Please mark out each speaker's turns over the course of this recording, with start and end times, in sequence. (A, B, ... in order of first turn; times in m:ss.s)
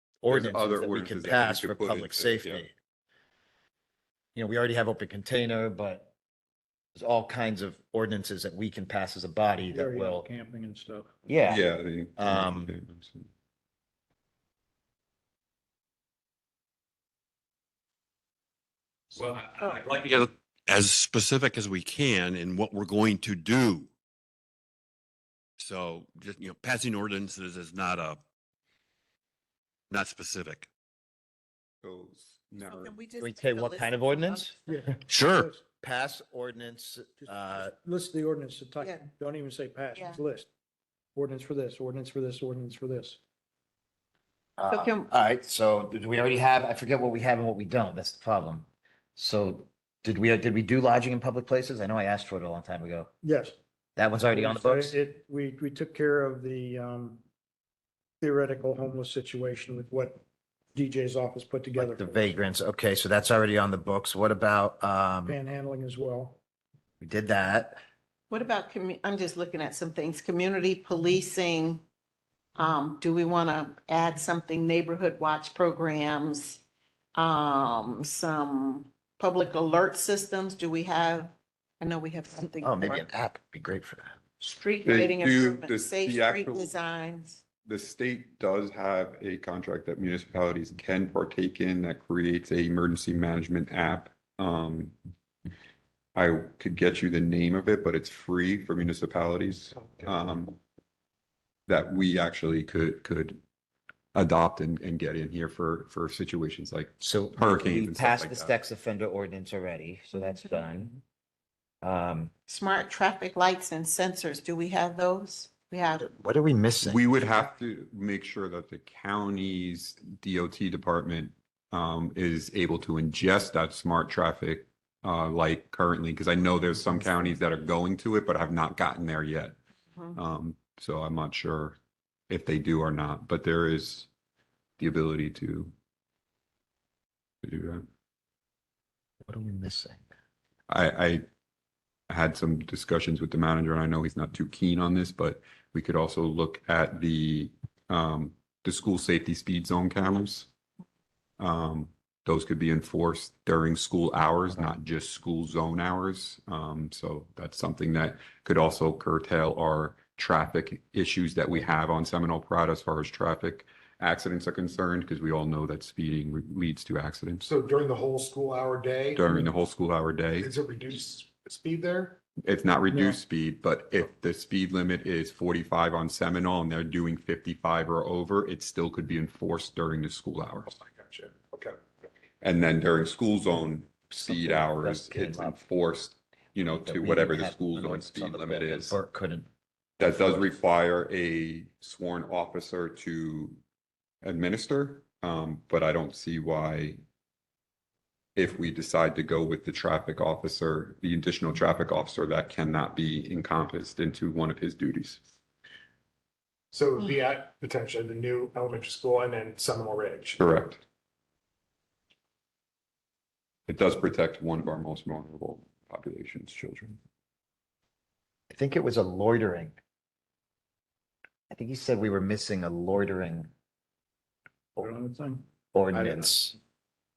0:00.2-0:02.7 A
0:00.3-0:02.6 B
0:04.3-0:06.1 A
0:07.0-0:10.3 A
0:09.7-0:11.1 C
0:11.2-0:11.6 A
0:11.5-0:13.3 B
0:12.2-0:12.7 A
0:19.2-0:23.9 D
0:25.6-0:28.2 D
0:29.9-0:30.7 D
0:31.8-0:32.9 B
0:32.6-0:34.8 E
0:33.2-0:34.5 A
0:34.7-0:35.6 C
0:35.1-0:35.5 D
0:35.8-0:37.7 A
0:37.3-0:40.5 C
0:38.8-0:39.1 E
0:39.9-0:40.2 E
0:41.2-0:43.2 C
0:44.6-0:53.1 A
0:44.7-0:45.1 E
0:53.2-0:53.6 C
0:54.0-0:55.0 A
0:54.3-0:57.2 C
0:58.2-1:00.2 C
1:00.8-1:02.2 C
1:01.8-1:05.4 A
1:05.2-1:06.4 C
1:07.0-1:07.8 A
1:08.3-1:11.8 E
1:12.6-1:16.6 E
1:17.2-1:23.1 E
1:22.6-1:24.2 A
1:24.4-1:27.4 E
1:24.8-1:26.8 B
1:27.6-1:35.0 B
1:36.2-1:40.6 B
1:41.7-1:43.4 B
1:44.1-1:48.6 B
1:47.0-1:51.0 A
1:51.8-1:52.3 A
1:52.5-1:56.1 E
1:56.0-1:57.0 A
1:56.8-2:09.6 B
2:10.2-2:11.8 B
2:12.3-2:14.1 B
2:14.8-2:15.7 B
2:17.4-2:17.8 B
2:19.2-2:20.0 A
2:20.7-2:21.2 B
2:22.1-2:30.5 B
2:31.4-2:47.4 B
2:47.4-2:49.5 F
2:49.2-2:50.5 B
2:50.4-2:52.2 F
2:52.4-3:00.7 B
2:52.9-2:53.2 C
3:00.7-3:01.8 F
3:02.4-3:09.0 B
3:04.1-3:05.6 A
3:06.8-3:09.5 A
3:10.0-3:13.6 B
3:14.2-3:17.0 B
3:18.4-3:25.2 B
3:26.7-3:30.4 F
3:30.4-3:30.8 B
3:33.7-3:37.0 B
3:38.5-3:39.7 A
3:41.5-3:43.5 A
3:44.8-3:46.1 C
3:45.7-3:46.5 A